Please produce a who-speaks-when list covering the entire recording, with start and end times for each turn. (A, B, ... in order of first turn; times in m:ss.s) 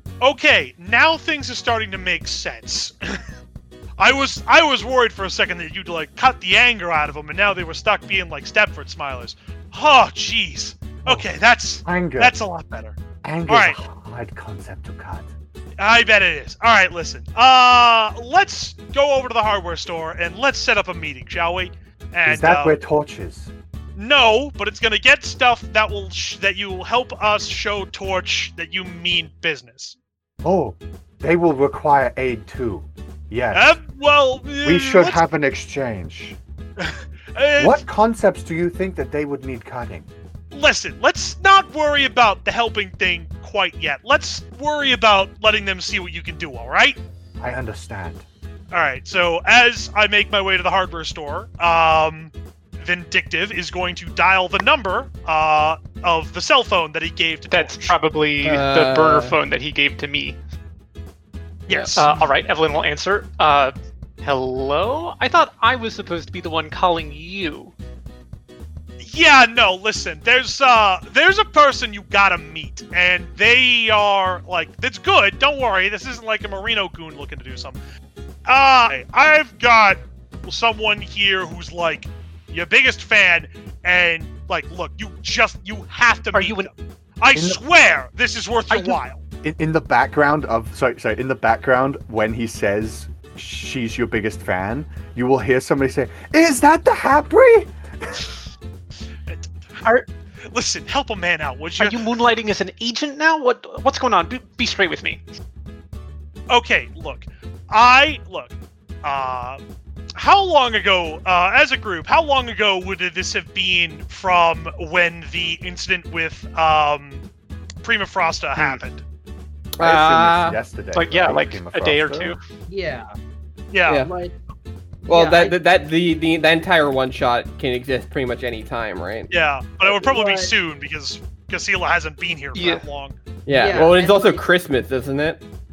0:00.2-0:03.2 A
0:04.0-0:13.0 A
0:11.8-0:12.4 B
0:13.2-0:15.3 B
0:13.5-0:13.8 A
0:15.8-0:22.8 A
0:22.3-0:23.5 B
0:24.0-0:30.0 A
0:30.4-0:33.7 B
0:33.5-0:35.2 A
0:34.6-0:36.4 B
0:36.8-0:37.8 A
0:37.6-0:40.1 B
0:40.5-0:47.0 A
0:47.4-0:48.2 B
0:48.7-0:58.0 A
0:57.5-1:00.4 C
0:58.4-0:59.4 D
1:01.7-1:02.0 D
1:01.7-1:02.3 A
1:01.7-1:07.7 C
1:09.0-1:17.8 A
1:18.5-1:26.7 A
1:26.3-1:26.7 C
1:27.2-1:29.2 A
1:27.4-1:27.6 B
1:29.4-1:38.2 B
1:40.5-1:42.1 A
1:41.8-1:45.2 C
1:46.5-1:49.6 A
1:50.2-1:57.2 A
1:57.8-1:59.0 A
1:59.8-2:00.5 D
1:59.8-2:02.4 B
1:59.8-2:00.4 C
2:00.9-2:02.4 C
2:02.7-2:03.2 E
2:03.7-2:04.1 A
2:03.9-2:04.4 E
2:05.0-2:05.6 E
2:05.1-2:09.3 D
2:09.3-2:13.2 A
2:10.0-2:10.5 E
2:12.6-2:12.8 C
2:13.5-2:15.4 D
2:13.5-2:14.4 E